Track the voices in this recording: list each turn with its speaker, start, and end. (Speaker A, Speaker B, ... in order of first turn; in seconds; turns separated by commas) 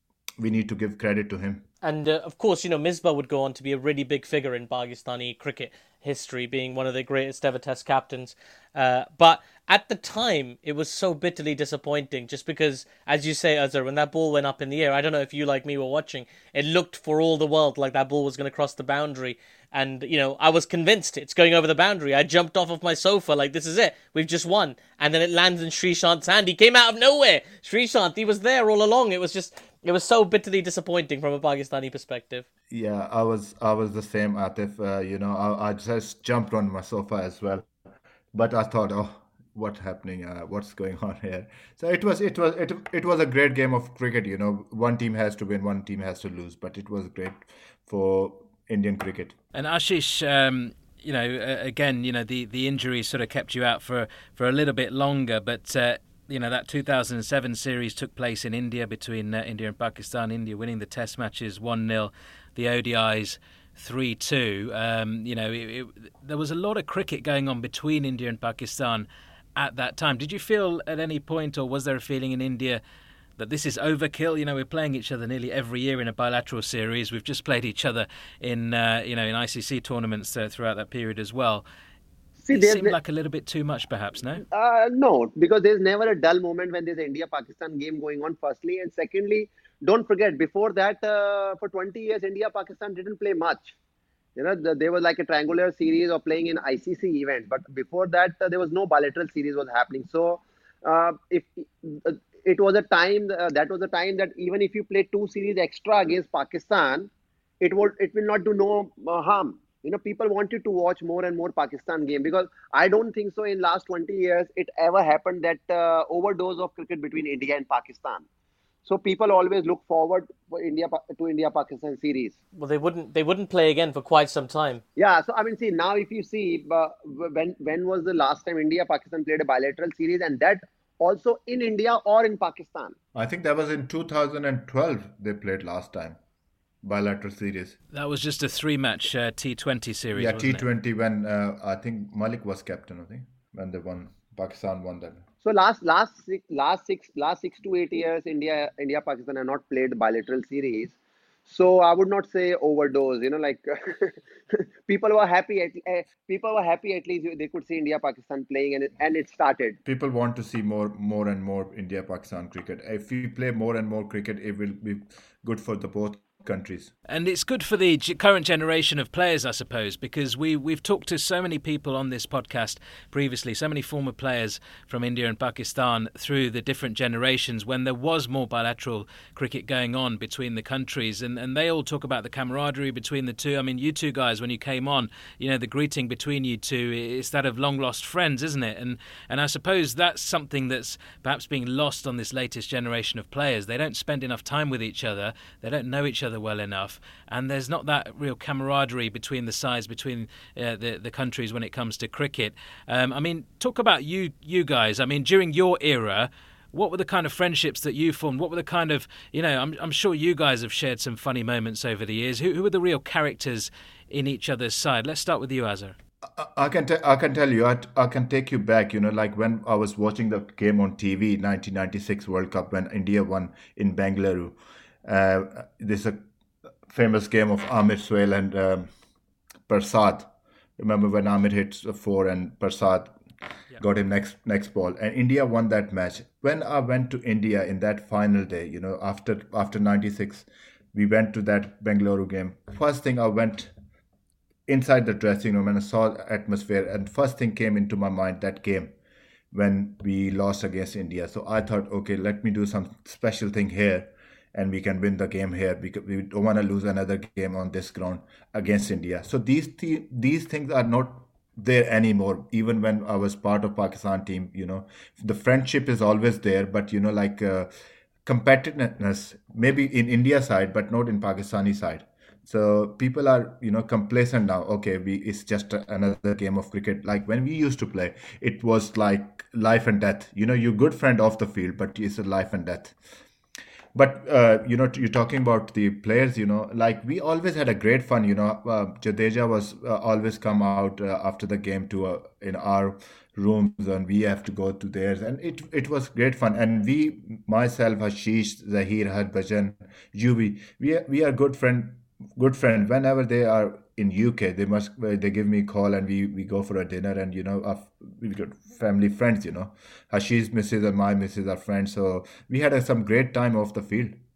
Speaker A: 0.4-1.6, Speaker B: 1.8-32.5, Speaker A: 32.7-37.7, Speaker A: 38.3-49.4, Speaker C: 49.5-72.8, Speaker C: 73.4-81.7, Speaker D: 82.4-83.0, Speaker C: 82.5-84.4, Speaker D: 84.4-93.8, Speaker D: 94.4-107.1, Speaker D: 107.6-118.2, Speaker D: 118.8-122.3, Speaker B: 122.5-124.8, Speaker D: 125.0-133.0, Speaker A: 133.2-136.2, Speaker A: 136.8-137.8, Speaker C: 137.9-140.7, Speaker A: 140.2-145.2, Speaker D: 145.4-150.9, Speaker D: 151.5-159.8, Speaker A: 159.8-166.9, Speaker C: 167.1-215.9, Speaker A: 216.3-226.3, Speaker A: 226.9-228.9, Speaker A: 229.7-233.2, Speaker A: 233.8-243.7, Speaker A: 244.7-248.9, Speaker A: 249.5-267.7, Speaker A: 268.2-283.0, Speaker A: 283.9-314.2